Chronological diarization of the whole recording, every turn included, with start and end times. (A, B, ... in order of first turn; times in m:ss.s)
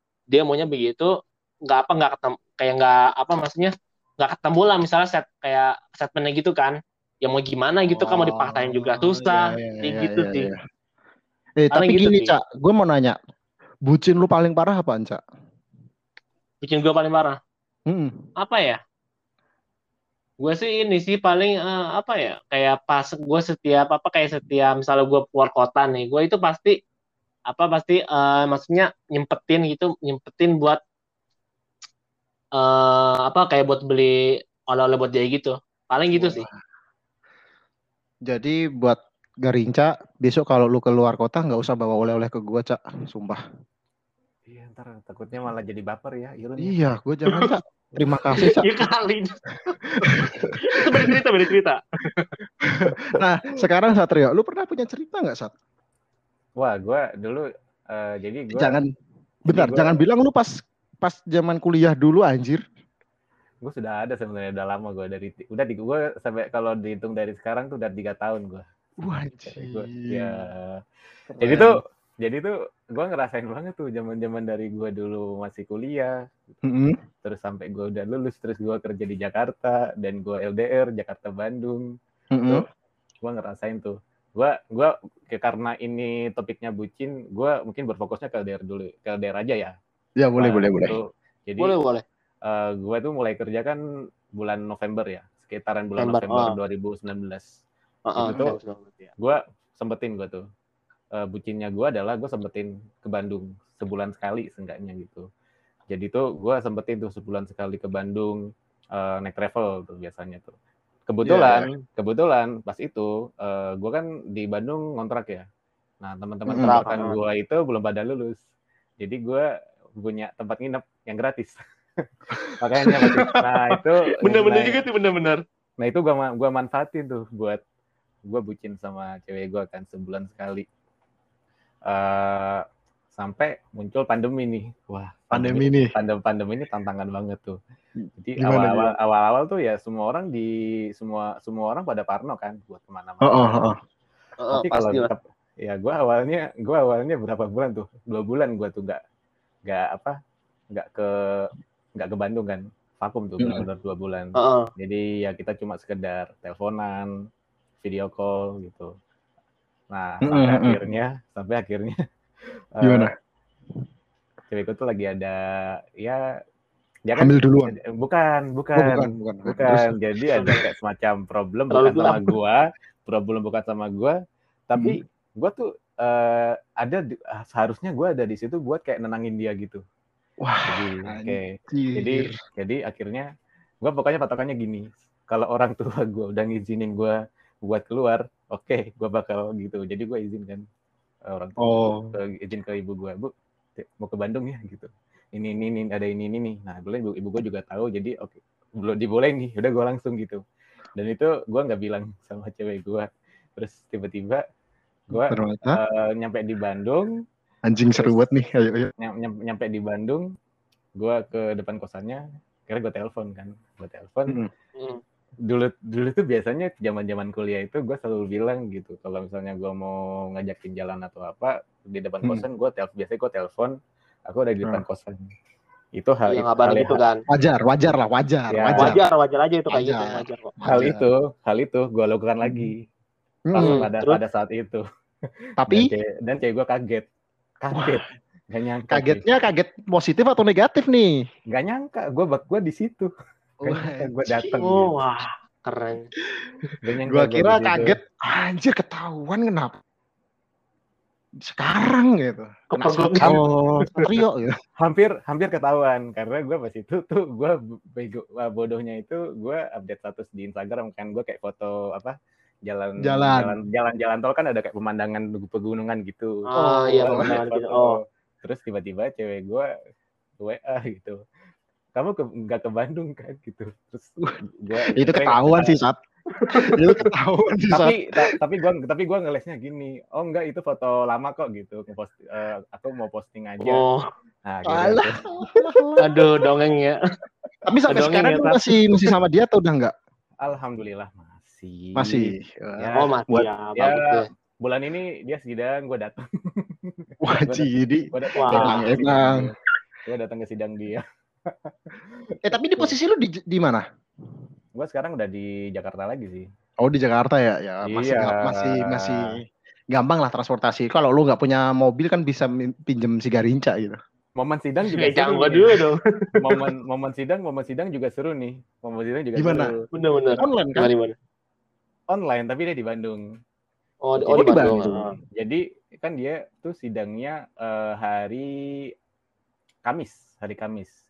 0:00.3-0:01.1 A
0:01.6-0:10.5 A
0:08.0-0:10.6 B
0:11.6-0:13.2 B
0:11.7-0:12.3 A
0:13.9-0:15.2 B
0:16.6-0:17.4 A
0:17.9-0:18.2 B
0:18.4-0:18.8 A
0:20.4-0:26.8 A
0:27.5-0:30.8 A
0:32.6-0:36.4 A
0:36.1-0:36.5 B
0:38.3-0:43.4 B
0:44.5-0:46.8 C
0:46.6-0:48.7 B
0:48.0-0:48.4 C
0:48.4-0:49.4 A
0:49.7-0:51.2 B
0:50.7-0:52.4 A
0:52.6-0:55.5 B
0:52.8-0:53.2 C
0:56.6-0:58.8 C
0:58.6-0:58.9 B
0:59.5-1:00.5 B
0:59.5-1:00.0 C
1:01.0-1:02.6 B
1:03.6-1:08.6 C
1:09.0-1:10.4 B
1:09.4-1:10.8 C
1:11.4-1:11.7 B
1:11.4-1:16.1 C
1:16.6-1:17.0 B
1:17.2-1:21.8 C
1:22.3-1:22.6 B
1:23.2-1:29.8 C
1:30.2-1:31.0 B
1:30.4-1:31.7 C
1:31.6-1:32.0 A
1:32.5-1:33.8 C
1:34.4-1:37.5 C
1:36.0-1:36.6 A
1:38.1-1:39.1 A
1:38.2-1:38.6 C
1:39.2-1:40.4 C
1:41.2-1:45.3 C
1:45.9-1:48.4 C
1:49.0-1:50.5 C
1:51.1-1:55.5 C
1:51.3-1:51.7 B
1:56.0-1:58.4 C
1:56.5-1:56.8 B
1:56.6-1:57.2 A
1:59.0-1:59.5 C
2:00.0-2:02.0 C
2:02.6-2:04.8 C
2:02.9-2:05.4 A
2:05.8-2:07.6 C
2:08.3-2:10.6 C
2:11.9-2:12.6 C
2:13.2-2:17.6 C
2:15.3-2:15.9 B
2:18.0-2:18.9 B
2:18.2-2:23.6 C
2:23.2-2:23.8 B
2:24.4-2:25.1 A
2:24.5-2:29.0 C
2:29.7-2:30.2 C
2:30.7-2:37.1 C
2:33.4-2:33.6 B
2:34.4-2:34.7 A
2:37.8-2:38.9 C
2:39.9-2:42.0 C
2:40.3-2:40.8 B
2:42.8-2:43.1 C
2:42.8-2:43.1 B
2:44.5-2:45.4 C
2:47.1-2:54.2 C
2:47.2-2:47.8 B
2:48.8-2:49.9 B
2:50.3-2:50.6 A
2:51.7-2:52.2 A
2:54.7-2:59.8 C
3:00.4-3:02.4 B
3:00.7-3:03.2 C
3:03.8-3:10.6 C
3:11.3-3:20.4 C
3:11.6-3:12.2 B
3:21.0-3:24.4 C
3:25.1-3:27.1 C
3:25.1-3:25.8 B
3:27.7-3:28.9 B
3:27.9-3:28.2 C
3:29.0-3:30.2 C
3:31.0-3:34.3 C
3:35.5-3:43.7 C
3:44.3-3:45.3 C
3:46.0-3:47.0 C
3:46.3-3:47.2 A
3:47.3-3:49.0 B
3:48.5-3:49.0 C
3:48.8-3:50.6 A
3:49.7-3:51.0 B
3:50.7-3:52.8 C
3:52.4-3:52.7 B
3:53.5-3:53.9 B
3:53.5-3:54.8 C
3:53.6-3:54.2 A
3:55.6-3:55.9 B
3:55.7-3:57.1 C
3:57.6-3:59.2 C
3:57.7-3:58.0 B
3:58.9-4:01.2 B
4:01.5-4:03.1 C
4:03.6-4:04.6 B
4:03.6-4:05.0 C
4:04.6-4:06.1 A
4:06.8-4:08.0 C
4:07.1-4:09.8 B
4:11.5-4:14.5 B
4:12.7-4:13.4 A
4:13.2-4:14.2 C
4:14.8-4:22.2 C
4:22.7-4:29.7 C
4:23.0-4:23.6 B
4:26.5-4:28.0 A
4:26.5-4:27.3 B
4:30.4-4:31.2 C
4:32.0-4:35.8 C
4:34.9-4:38.4 B
4:36.5-4:37.0 A
4:37.7-4:43.8 C
4:43.6-4:44.0 A
4:44.4-4:45.8 C
4:44.7-4:46.2 B
4:46.0-4:47.0 A
4:47.7-4:49.9 B
4:47.9-4:48.6 A
4:50.4-4:53.1 C
4:52.0-4:53.5 B
4:53.0-4:54.3 A
4:53.8-4:59.6 C
4:57.2-4:59.5 B
4:58.4-4:59.0 A
5:00.1-5:02.9 C
5:02.4-5:03.8 B
5:04.7-5:06.5 C
5:06.8-5:09.4 B
5:07.9-5:09.3 C
5:09.9-5:14.0 B
5:14.4-5:15.8 C
5:15.0-5:16.6 A
5:16.4-5:19.9 C
5:19.4-5:19.7 B
5:19.9-5:21.1 A
5:20.4-5:20.9 B
5:22.1-5:23.3 C
5:24.1-5:25.1 A
5:24.2-5:28.9 C
5:24.3-5:25.0 B
5:29.9-5:30.9 C